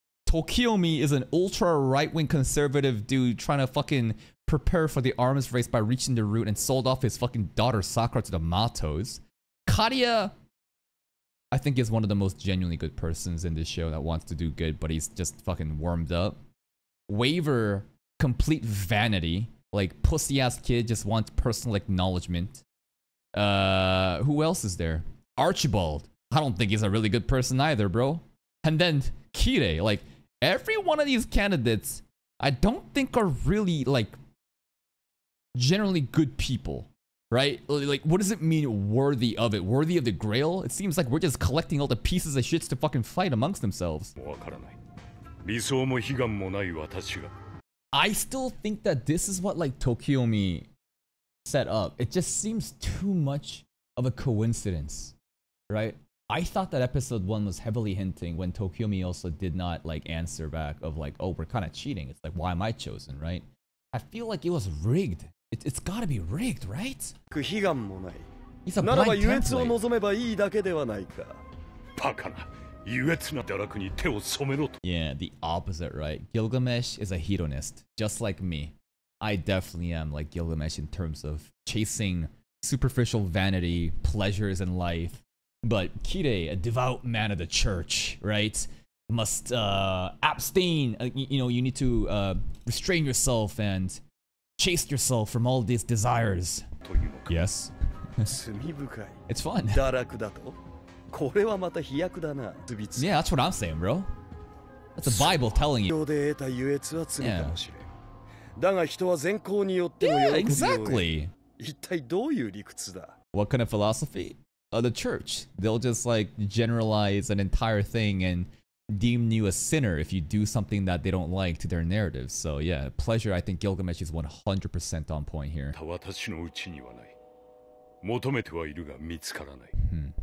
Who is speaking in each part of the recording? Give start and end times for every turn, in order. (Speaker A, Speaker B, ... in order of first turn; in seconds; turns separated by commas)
Speaker A: 0.3-10.3, Speaker A: 11.5-16.4, Speaker A: 17.1-22.6, Speaker A: 23.3-34.2, Speaker A: 35.5-44.1, Speaker B: 44.1-44.8, Speaker B: 45.4-47.3, Speaker A: 47.9-50.7, Speaker A: 51.4-55.1, Speaker A: 55.7-67.1, Speaker C: 67.3-68.3, Speaker A: 68.7-69.8, Speaker C: 68.8-71.4, Speaker B: 72.0-74.8, Speaker A: 74.8-94.0, Speaker A: 94.6-96.6, Speaker B: 96.8-97.4, Speaker A: 97.3-98.3, Speaker C: 98.2-100.6, Speaker A: 99.3-99.8, Speaker C: 101.1-103.1, Speaker A: 103.0-104.1, Speaker A: 105.0-105.9, Speaker C: 105.1-107.9, Speaker A: 107.2-107.6, Speaker C: 108.6-113.2, Speaker A: 110.0-111.3, Speaker A: 113.3-125.8, Speaker B: 125.7-127.1, Speaker B: 128.0-129.7, Speaker A: 129.8-130.1